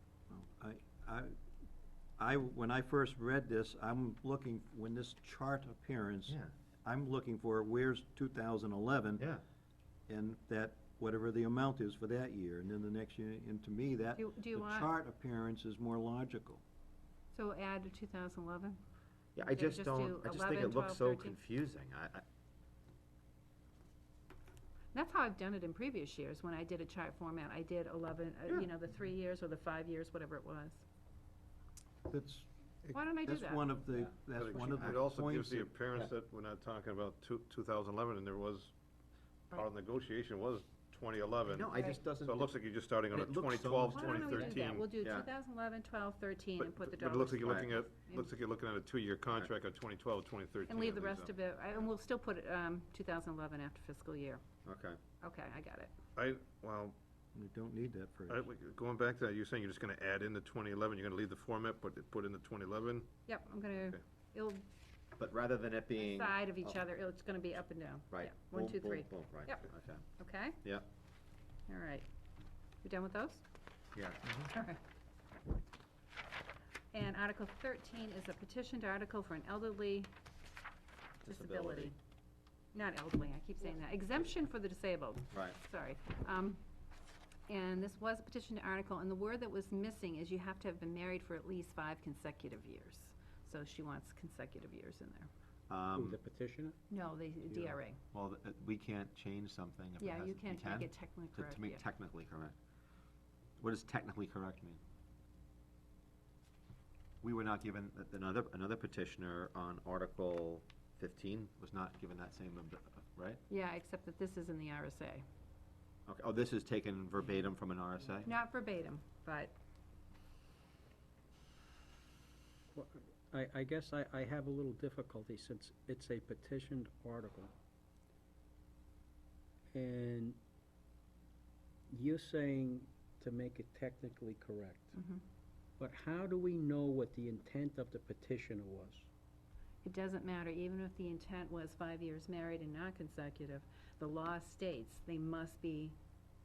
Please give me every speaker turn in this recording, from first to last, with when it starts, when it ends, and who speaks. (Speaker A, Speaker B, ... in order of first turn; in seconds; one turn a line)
Speaker A: 0.3-1.3
Speaker A: 2.2-9.3
Speaker A: 10.1-16.6
Speaker B: 14.1-14.9
Speaker B: 17.3-18.8
Speaker C: 19.4-22.2
Speaker B: 19.4-21.4
Speaker B: 24.9-30.8
Speaker A: 32.1-35.7
Speaker B: 32.9-33.7
Speaker C: 34.0-35.0
Speaker D: 34.3-38.7
Speaker D: 39.5-44.9
Speaker C: 41.5-42.5
Speaker C: 43.1-45.3
Speaker B: 43.9-48.3
Speaker D: 46.6-51.3
Speaker C: 47.4-47.7
Speaker B: 50.7-54.4
Speaker C: 54.6-55.0
Speaker B: 55.2-55.9
Speaker D: 56.1-57.0
Speaker A: 57.3-58.5
Speaker D: 58.3-63.1
Speaker B: 63.2-64.7
Speaker C: 65.2-66.8
Speaker B: 66.0-69.6
Speaker C: 68.1-70.0
Speaker B: 70.2-70.6
Speaker B: 71.7-72.0
Speaker B: 72.8-73.4
Speaker C: 73.9-74.5
Speaker B: 74.5-74.8
Speaker B: 76.9-80.1
Speaker C: 81.2-81.9
Speaker B: 81.2-82.0
Speaker B: 82.7-86.6
Speaker B: 87.5-95.3
Speaker C: 95.7-96.2
Speaker E: 95.9-96.8
Speaker B: 96.9-98.0
Speaker E: 97.5-97.8
Speaker C: 98.1-102.5
Speaker B: 100.0-101.8
Speaker C: 103.6-104.8
Speaker C: 107.2-113.4
Speaker B: 113.5-115.2
Speaker C: 116.1-118.3
Speaker B: 118.2-119.5
Speaker E: 122.7-127.5
Speaker E: 129.7-130.4
Speaker E: 131.9-135.0
Speaker B: 134.9-135.2
Speaker E: 135.8-139.1
Speaker B: 139.8-145.9